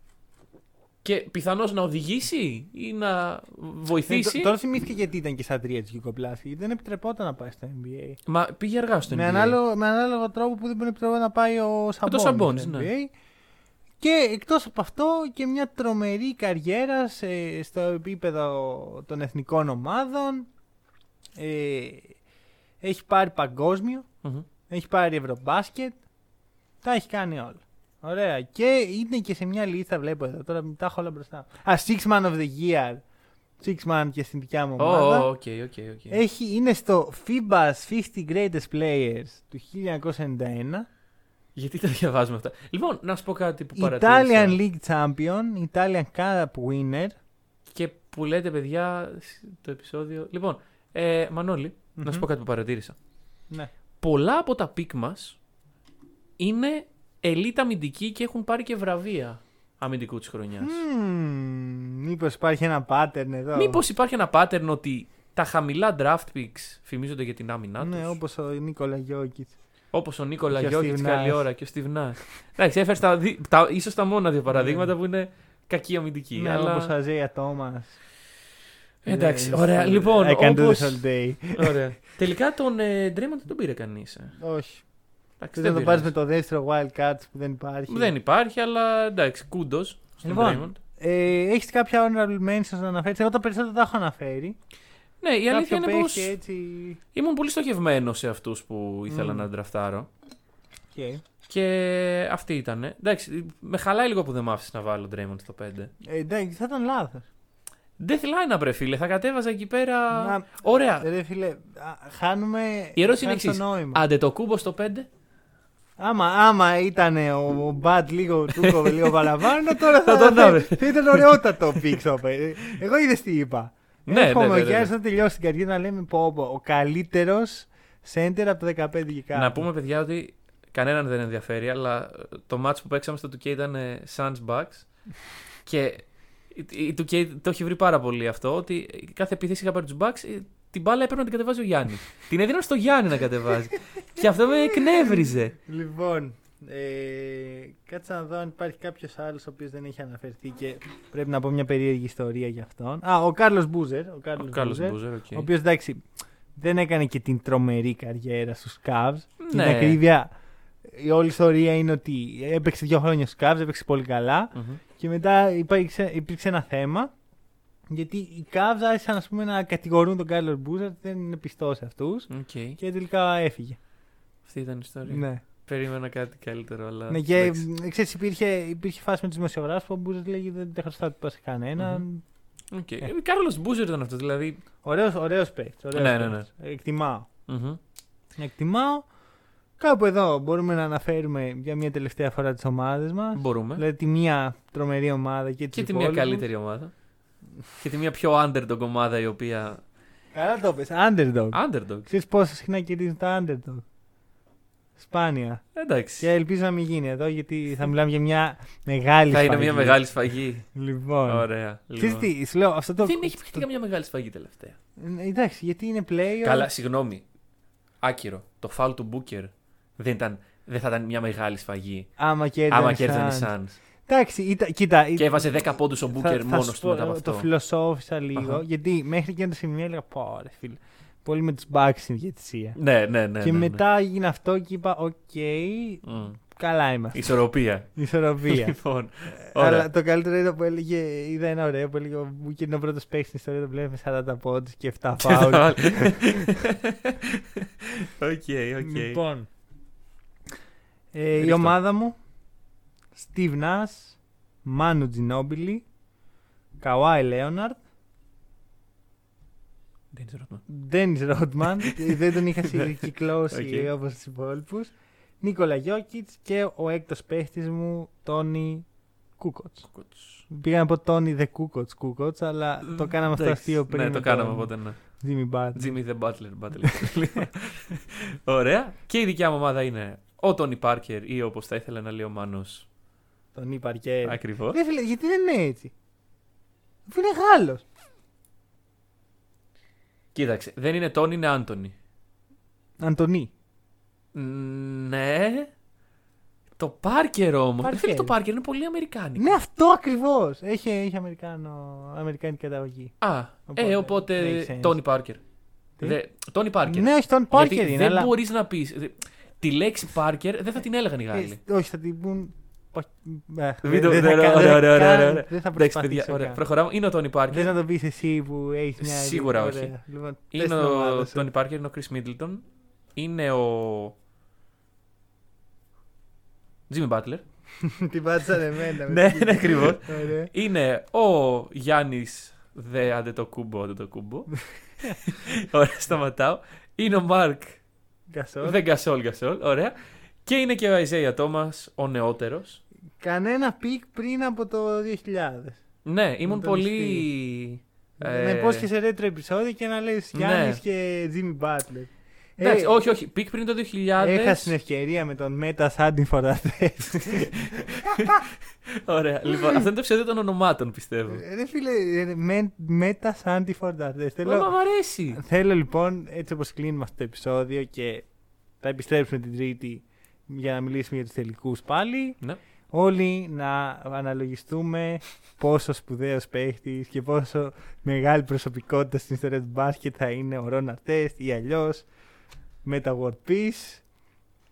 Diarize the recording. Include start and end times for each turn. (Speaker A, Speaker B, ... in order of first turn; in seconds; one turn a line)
Speaker A: 1.0-4.5
Speaker B: 4.1-8.2
Speaker A: 8.2-9.6
Speaker B: 9.1-13.1
Speaker A: 12.0-12.9
Speaker B: 14.0-20.5
Speaker B: 21.4-22.1
Speaker B: 22.8-24.1
Speaker B: 24.7-26.0
Speaker B: 26.8-33.0
Speaker B: 33.6-35.3
Speaker A: 34.8-36.2
Speaker B: 36.1-40.9
Speaker A: 41.5-44.6
Speaker B: 43.8-47.2
Speaker A: 47.7-53.0
Speaker B: 52.0-52.3
Speaker A: 54.0-55.4
Speaker A: 56.4-60.8
Speaker B: 60.6-63.8
Speaker A: 63.5-68.2
Speaker B: 67.8-69.5
Speaker A: 69.9-76.9
Speaker B: 70.5-71.5
Speaker B: 74.5-74.9
Speaker B: 76.3-78.0
Speaker A: 79.0-84.4
Speaker B: 79.1-81.8
Speaker B: 84.4-84.8
Speaker A: 85.4-86.1
Speaker B: 85.5-88.1
Speaker A: 87.9-90.8
Speaker B: 90.2-94.5
Speaker A: 95.2-96.3
Speaker B: 95.5-97.0
Speaker A: 97.1-100.1
Speaker B: 99.1-99.5
Speaker B: 100.9-101.2
Speaker A: 101.5-105.9
Speaker B: 106.0-107.2
Speaker A: 108.0-111.1
Speaker B: 110.1-114.0
Speaker A: 113.0-115.1
Speaker B: 116.0-129.7
Speaker A: 118.6-119.0
Speaker A: 119.7-121.4
Speaker A: 124.1-124.9
Speaker A: 129.3-134.9
Speaker A: 135.6-145.5
Speaker B: 144.7-156.0
Speaker A: 154.3-155.5
Speaker B: 156.6-160.3
Speaker A: 159.4-160.0
Speaker B: 160.8-167.1
Speaker A: 164.5-164.8
Speaker B: 167.9-173.8
Speaker A: 172.3-172.8
Speaker A: 174.4-177.6
Speaker B: 175.1-175.4
Speaker B: 177.1-182.2
Speaker A: 181.8-182.0
Speaker A: 182.7-184.6
Speaker B: 184.8-187.3
Speaker A: 185.9-186.5
Speaker A: 187.5-187.8
Speaker B: 188.4-189.0
Speaker B: 189.8-196.5
Speaker A: 193.3-193.8
Speaker A: 195.7-196.9
Speaker A: 197.8-199.8
Speaker B: 200.3-203.8
Speaker A: 201.5-202.1
Speaker B: 205.0-205.6
Speaker A: 205.7-206.3
Speaker B: 206.2-210.0
Speaker A: 209.3-210.7
Speaker B: 210.7-213.7
Speaker A: 211.3-212.3
Speaker A: 213.0-214.8
Speaker B: 215.0-216.7
Speaker A: 216.4-217.2
Speaker A: 218.0-222.1
Speaker B: 222.2-223.5
Speaker A: 222.7-223.8
Speaker B: 224.1-225.5
Speaker A: 225.2-227.5
Speaker B: 226.1-232.8
Speaker A: 228.3-228.6
Speaker A: 232.8-233.8
Speaker B: 233.4-238.8
Speaker A: 236.0-236.4
Speaker A: 237.1-237.9
Speaker A: 238.4-239.9
Speaker B: 239.4-246.6
Speaker A: 245.2-249.2
Speaker B: 248.8-249.5
Speaker B: 251.1-252.2
Speaker A: 251.4-251.7
Speaker B: 253.1-255.8
Speaker B: 256.8-257.8
Speaker A: 260.1-260.6
Speaker B: 260.7-268.9
Speaker A: 261.8-262.1
Speaker A: 262.6-263.0
Speaker A: 263.5-263.9
Speaker B: 269.4-269.9
Speaker A: 269.9-270.4
Speaker B: 270.5-276.0
Speaker A: 272.8-275.0
Speaker A: 275.7-282.9
Speaker B: 276.9-277.4
Speaker B: 283.5-285.9
Speaker A: 284.2-284.8
Speaker B: 287.1-287.8
Speaker A: 290.3-291.9
Speaker B: 293.0-293.5
Speaker A: 294.3-295.7
Speaker A: 296.8-299.5
Speaker B: 297.8-298.3
Speaker B: 299.4-303.1
Speaker A: 303.2-305.4
Speaker B: 303.7-305.0
Speaker A: 306.0-311.6
Speaker B: 306.8-308.3
Speaker B: 311.3-316.6
Speaker A: 313.8-317.7
Speaker B: 317.5-321.5
Speaker A: 319.0-319.9
Speaker A: 320.5-324.1
Speaker A: 326.9-327.4
Speaker B: 327.8-330.5
Speaker A: 329.1-334.5
Speaker A: 335.1-337.8
Speaker B: 338.3-338.8
Speaker A: 338.6-342.8
Speaker B: 343.2-345.8
Speaker A: 346.0-348.9
Speaker B: 346.4-347.3
Speaker B: 348.2-353.0
Speaker A: 350.3-350.8
Speaker A: 352.6-354.7
Speaker B: 354.2-358.4
Speaker A: 357.1-361.4
Speaker B: 359.5-359.9
Speaker B: 361.3-364.7
Speaker A: 364.4-365.4
Speaker B: 365.3-368.2
Speaker B: 368.8-372.4
Speaker B: 372.9-382.1
Speaker B: 382.8-384.0